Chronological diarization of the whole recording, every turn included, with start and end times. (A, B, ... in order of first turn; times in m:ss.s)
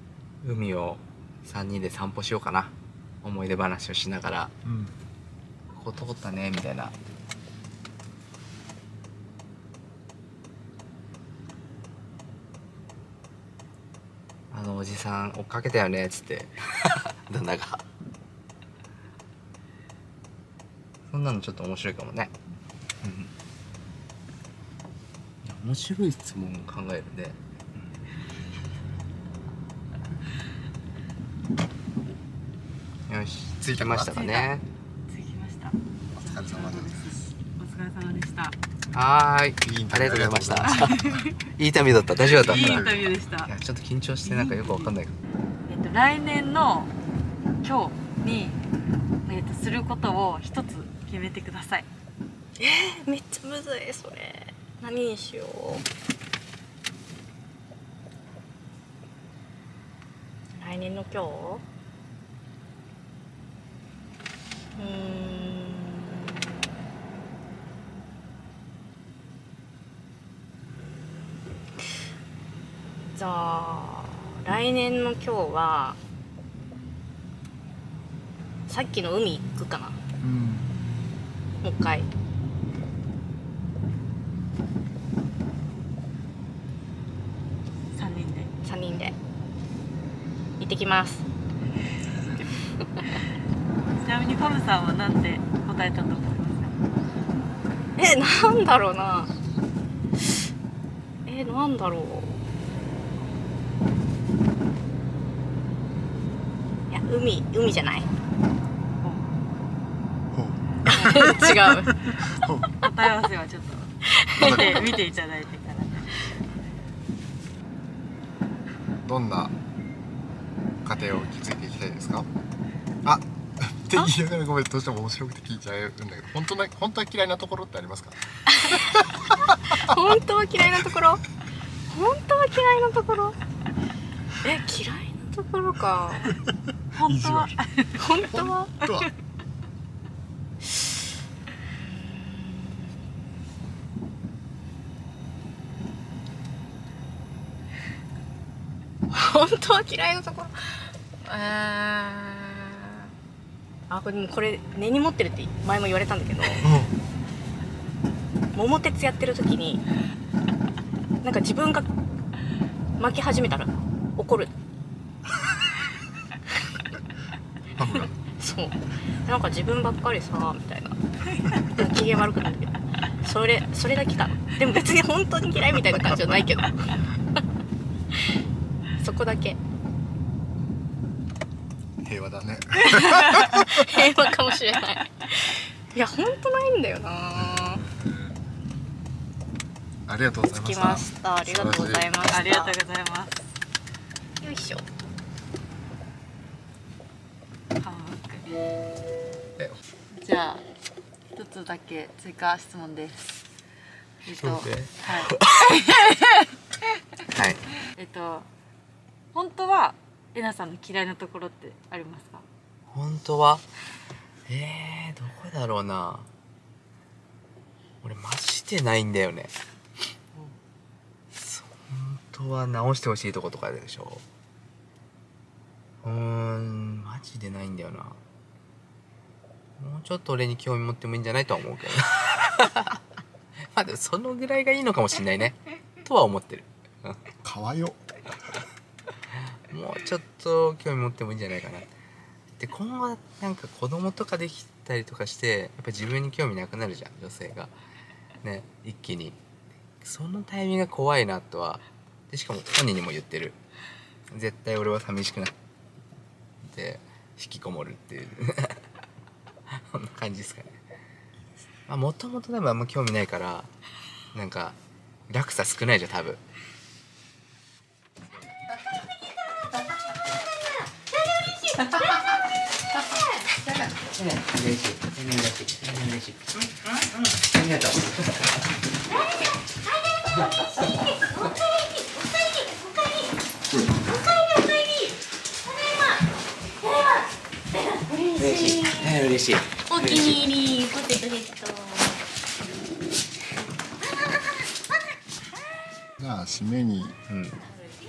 0:00.4-0:04.5 A
0:04.6-0:05.0 B
0:05.7-0:06.9 A
0:14.5-0:17.8 A
0:21.1-0:22.3 A
0:23.0-0:23.3 A
0:25.4-0:27.9 A
0:33.1-0:34.6 A
0:33.6-0:34.1 B
0:34.0-0:34.5 C
0:35.1-0:38.6 C
0:36.1-0:37.1 B
0:38.9-0:45.1 A
0:39.6-0:41.2 B
0:40.7-0:41.3 C
0:42.2-0:43.5 C
0:42.4-0:43.1 B
0:44.2-0:45.0 C
0:45.7-0:46.9 C
0:47.6-0:48.6 C
0:49.2-0:51.9 C
0:52.6-0:55.8 D
1:00.6-1:01.6 D
1:04.8-1:06.3 D
1:13.1-1:16.0 D
1:18.7-1:20.0 D
1:20.2-1:20.8 B
1:21.6-1:22.1 D
1:27.9-1:28.5 C
1:28.6-1:29.2 D
1:30.6-1:31.2 D
1:32.3-1:33.0 D
1:34.0-1:36.8 C
1:38.0-1:39.3 D
1:41.2-1:42.4 D
1:46.9-1:48.1 D
1:49.0-1:49.3 C
1:50.3-1:51.5 B
1:50.9-1:51.5 C
1:51.0-1:52.1 D
1:52.2-1:52.7 B
1:52.8-1:56.3 C
1:54.1-1:54.8 D
1:54.4-1:54.8 B
1:59.0-1:59.5 B
2:00.8-2:02.3 B
2:03.0-2:09.4 B
2:08.5-2:09.1 D
2:09.7-2:11.2 D
2:11.9-2:13.4 D
2:14.4-2:16.4 D
2:16.9-2:18.0 C
2:17.0-2:17.5 B
2:18.0-2:18.8 D
2:18.2-2:19.1 B
2:22.0-2:22.8 D
2:29.1-2:33.1 D
2:33.9-2:36.7 D
2:36.6-2:36.9 B
2:38.5-2:39.8 D
2:41.2-2:41.9 D
2:43.0-2:44.5 D
2:47.8-2:48.1 B
2:48.3-2:51.0 D
2:51.6-2:57.0 D
2:59.0-2:59.6 D
3:02.0-3:03.9 B
3:03.0-3:03.4 C
3:03.4-3:07.8 D
3:07.3-3:08.3 B
3:10.1-3:12.1 B
3:10.6-3:12.7 D
3:12.2-3:13.5 C
3:14.4-3:14.8 D
3:17.8-3:18.5 C
3:20.2-3:20.6 C
3:21.3-3:23.4 C
3:24.2-3:26.4 C
3:24.3-3:25.8 A
3:27.3-3:27.6 A
3:27.9-3:28.5 C
3:29.3-3:32.4 C
3:32.9-3:33.6 A
3:34.5-3:36.3 A
3:38.0-3:39.5 A
3:41.4-3:44.2 A
3:46.0-3:48.2 A
3:49.8-3:53.0 A
3:53.7-3:57.3 A
3:57.4-3:58.0 B
3:59.7-4:01.9 A
4:02.6-4:07.7 A
4:08.4-4:09.4 A
4:10.0-4:13.6 A
4:14.3-4:15.5 A
4:16.7-4:18.8 A
4:19.7-4:20.8 A
4:21.9-4:23.7 A
4:24.3-4:24.8 A
4:25.3-4:26.4 A
4:34.2-4:36.3 A
4:37.5-4:38.0 A
4:48.4-4:49.0 D
4:49.2-4:49.6 A
4:49.9-4:52.2 D
4:56.2-4:57.2 B
4:57.3-4:57.6 A